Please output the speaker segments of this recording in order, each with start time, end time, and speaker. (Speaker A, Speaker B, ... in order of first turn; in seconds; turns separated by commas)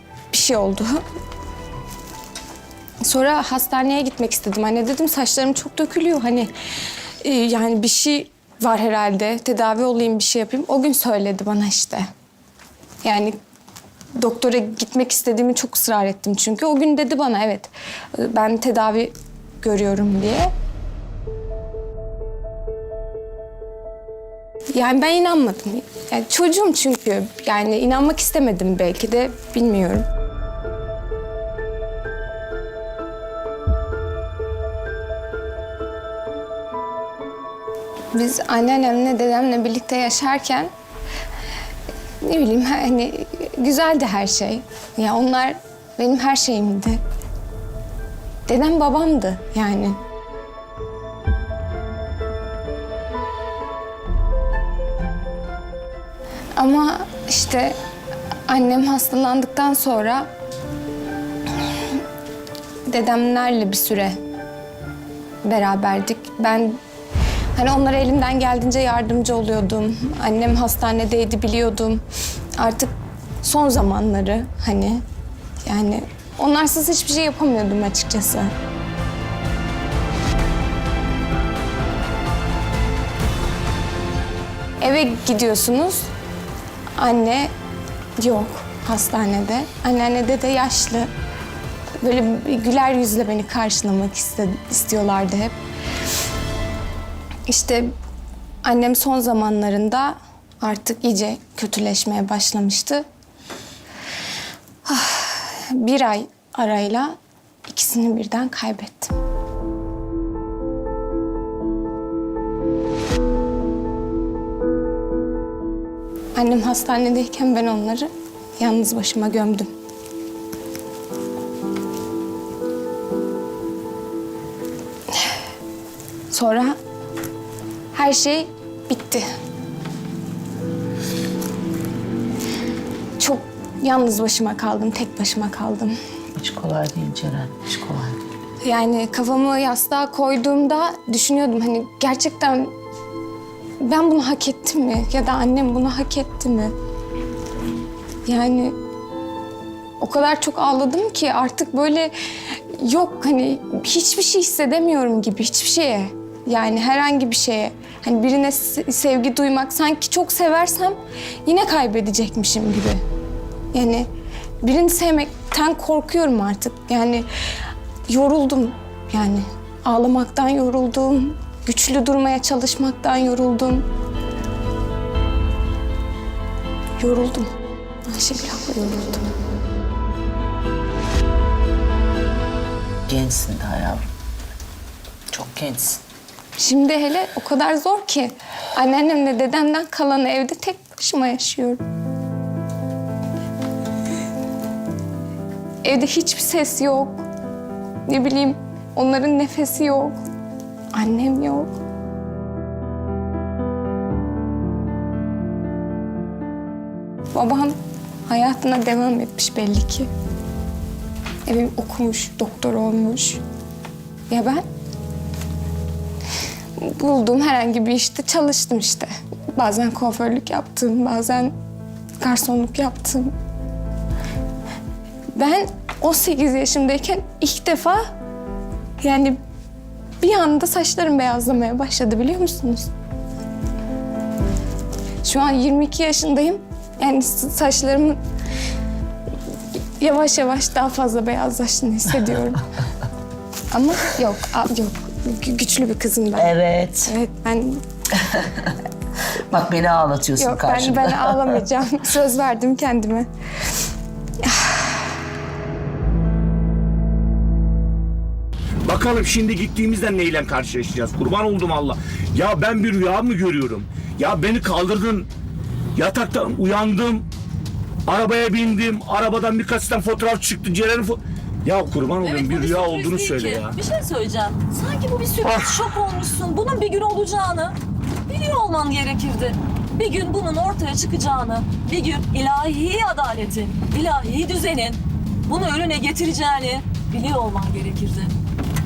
Speaker A: 0.3-1.0, Speaker A: 3.0-6.5, Speaker A: 7.2-12.1, Speaker A: 13.1-13.4, Speaker A: 14.2-20.5, Speaker A: 24.8-30.1, Speaker A: 38.1-40.7, Speaker A: 42.2-47.0, Speaker A: 48.5-50.0, Speaker A: 56.6-57.8, Speaker A: 58.5-60.3, Speaker A: 62.9-64.2, Speaker A: 65.4-66.8, Speaker A: 67.5-72.0, Speaker A: 72.6-75.0, Speaker A: 75.7-78.5, Speaker A: 84.8-86.1, Speaker A: 87.0-87.5, Speaker A: 88.2-91.1, Speaker A: 92.0-95.6, Speaker A: 97.5-97.9, Speaker A: 98.6-103.0, Speaker A: 104.8-107.2, Speaker A: 107.7-109.1, Speaker A: 116.3-119.7, Speaker A: 126.3-126.8, Speaker A: 127.9-129.3, Speaker A: 133.2-135.9, Speaker B: 136.4-138.2, Speaker A: 138.6-142.7, Speaker A: 143.8-146.7, Speaker A: 148.3-148.8, Speaker A: 150.0-163.0, Speaker A: 163.7-164.1, Speaker A: 164.6-167.3, Speaker A: 168.1-173.8, Speaker A: 177.0-177.5, Speaker A: 178.1-179.3, Speaker B: 183.1-184.1, Speaker B: 185.3-186.0, Speaker A: 186.6-191.8, Speaker A: 195.8-197.2, Speaker A: 198.1-200.2, Speaker A: 200.9-201.8, Speaker A: 207.3-207.7, Speaker A: 208.3-210.1, Speaker A: 211.5-213.4, Speaker A: 214.3-214.6, Speaker A: 216.8-221.5, Speaker A: 222.2-223.3, Speaker A: 225.3-228.0, Speaker A: 229.0-229.4, Speaker A: 230.2-232.9, Speaker A: 235.2-238.2, Speaker A: 240.0-242.7, Speaker A: 243.7-246.5, Speaker B: 246.3-247.1, Speaker A: 247.1-247.8, Speaker B: 248.2-248.8, Speaker B: 249.5-251.7, Speaker A: 250.4-253.3, Speaker A: 254.4-255.1, Speaker C: 258.9-265.3, Speaker C: 266.0-267.3, Speaker C: 268.1-273.8, Speaker D: 272.2-277.8, Speaker D: 278.3-288.4